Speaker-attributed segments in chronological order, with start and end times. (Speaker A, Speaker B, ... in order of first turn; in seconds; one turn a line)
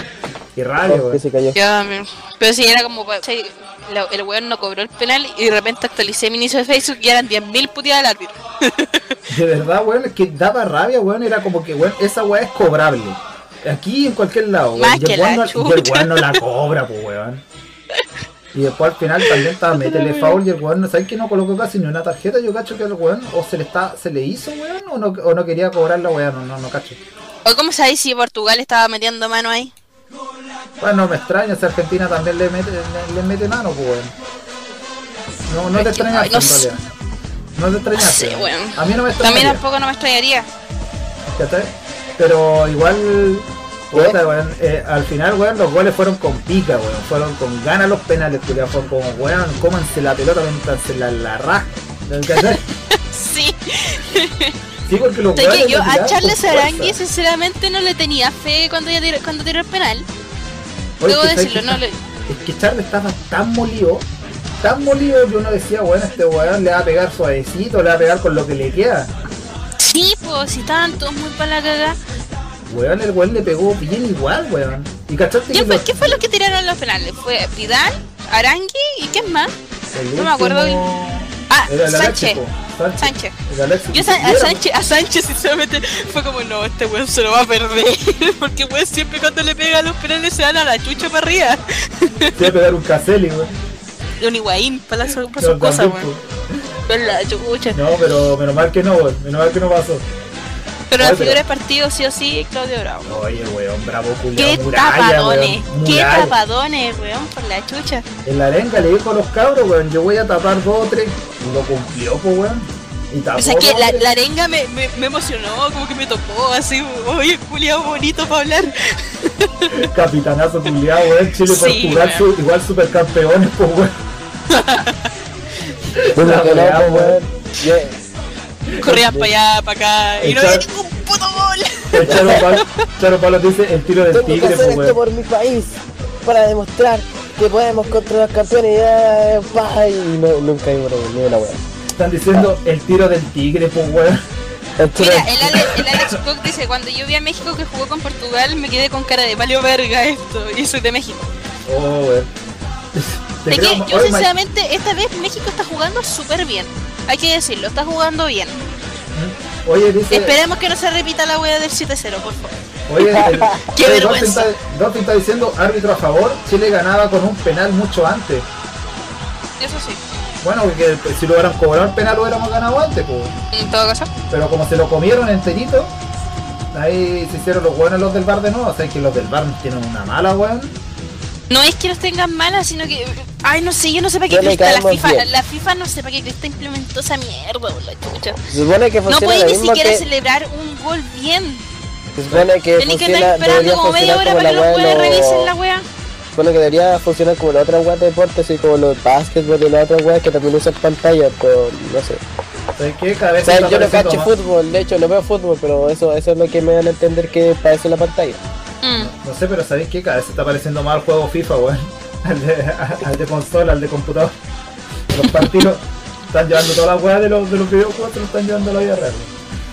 Speaker A: 0.5-1.2
Speaker B: 0.8-1.6
Speaker C: 1.5-9.0
Speaker A: 9.3-17.4
Speaker C: 14.8-16.4
Speaker A: 18.5-27.0
Speaker C: 19.3-20.4
Speaker C: 27.4-29.7
Speaker A: 30.8-34.1
Speaker A: 35.5-36.8
Speaker C: 35.7-36.8
Speaker A: 37.5-39.6
Speaker C: 38.0-40.5
Speaker A: 41.3-52.6
Speaker C: 52.4-54.5
Speaker A: 54.9-57.0
Speaker C: 55.3-60.1
Speaker A: 61.0-64.0
Speaker C: 61.0-62.0
Speaker A: 64.6-69.1
Speaker C: 69.8-72.0
Speaker A: 72.7-76.2
Speaker C: 75.5-79.5
Speaker A: 79.9-84.6
Speaker C: 80.2-80.8
Speaker C: 81.5-82.4
Speaker C: 83.0-83.3
Speaker C: 83.9-92.4
Speaker A: 92.4-93.5
Speaker C: 94.2-96.1
Speaker A: 95.4-96.6
Speaker C: 96.9-97.8
Speaker A: 97.7-100.0
Speaker C: 100.9-103.2
Speaker A: 101.0-101.4
Speaker A: 103.0-106.3
Speaker C: 104.3-108.0
Speaker A: 108.2-114.1
Speaker C: 113.4-119.9
Speaker A: 119.7-123.9
Speaker C: 121.4-122.2
Speaker C: 124.5-125.0
Speaker A: 126.0-127.2
Speaker B: 126.1-128.0
Speaker A: 128.7-129.1
Speaker C: 128.8-132.7
Speaker A: 130.2-130.6
Speaker A: 131.9-135.0
Speaker B: 132.1-132.4
Speaker B: 134.1-141.6
Speaker A: 142.0-144.2
Speaker B: 144.8-145.5
Speaker C: 145.0-151.3
Speaker A: 145.5-146.2
Speaker A: 151.7-152.3
Speaker A: 152.9-154.3
Speaker C: 153.5-158.6
Speaker A: 159.1-160.4
Speaker C: 160.1-162.5
Speaker A: 162.9-168.5
Speaker B: 163.1-163.7
Speaker C: 163.7-164.5
Speaker C: 169.6-170.0
Speaker A: 170.4-173.3
Speaker C: 173.5-174.1
Speaker A: 174.3-175.9
Speaker A: 176.7-180.8
Speaker C: 181.5-188.4
Speaker B: 184.3-185.3
Speaker B: 188.5-190.1
Speaker C: 189.1-191.6
Speaker B: 192.2-195.5
Speaker C: 192.8-195.8
Speaker B: 196.3-202.2
Speaker A: 202.8-204.3
Speaker B: 203.4-208.4
Speaker C: 208.8-209.1
Speaker A: 209.0-214.3
Speaker A: 215.1-219.3